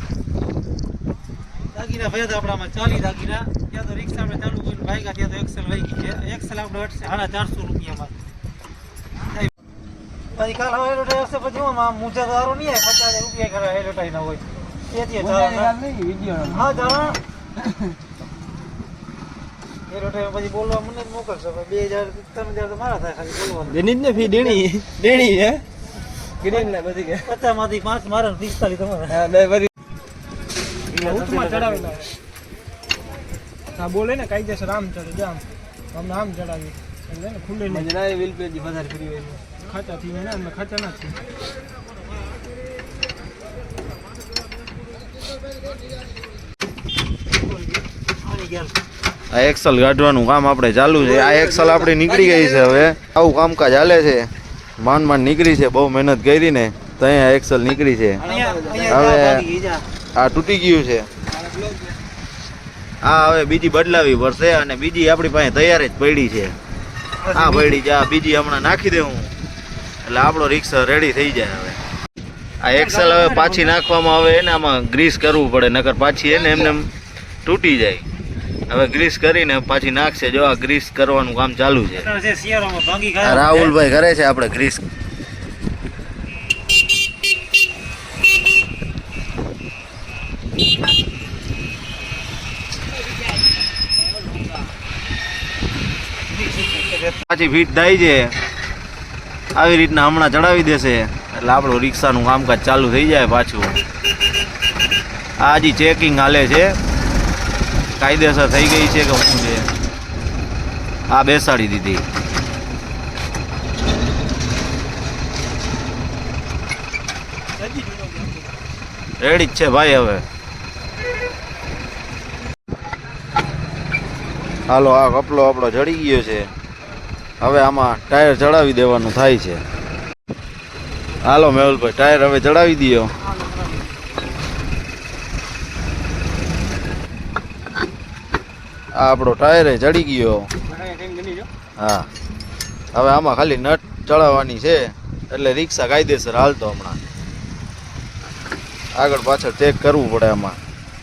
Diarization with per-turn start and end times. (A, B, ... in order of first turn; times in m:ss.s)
0:01.7-0:08.1 A
0:10.3-0:15.8 A
0:15.2-0:16.8 B
0:16.4-0:17.2 A
0:19.9-0:24.6 A
0:23.7-0:25.6 B
0:26.4-0:27.3 B
0:27.2-0:29.3 A
0:29.1-0:29.7 B
0:30.9-0:32.0 A
0:31.1-0:31.9 C
0:33.7-0:37.8 C
0:37.5-0:39.5 B
0:39.6-0:41.2 C
0:47.3-0:48.7 A
0:49.3-0:54.3 D
0:51.1-0:52.8 B
0:54.8-0:58.2 D
0:58.2-0:59.0 B
0:58.2-0:59.8 A
0:58.9-0:59.4 D
1:00.2-1:01.1 D
1:01.4-1:01.9 B
1:03.0-1:06.5 D
1:07.2-1:07.8 A
1:07.3-1:09.3 D
1:10.0-1:11.8 D
1:12.6-1:16.9 D
1:12.7-1:13.7 A
1:17.4-1:18.0 D
1:18.7-1:22.1 D
1:21.9-1:23.8 A
1:23.2-1:24.8 D
1:36.5-1:37.0 A
1:37.2-1:38.3 D
1:39.5-1:43.8 D
1:45.4-1:46.8 D
1:48.0-1:49.6 D
1:51.1-1:52.0 D
1:57.8-1:58.2 B
1:59.2-2:00.2 D
2:04.7-2:06.5 D
2:07.4-2:09.6 D
2:11.2-2:13.1 D
2:19.0-2:20.5 D
2:20.7-2:21.5 B
2:21.8-2:22.1 D
2:22.9-2:27.0 D
2:28.9-2:30.6 D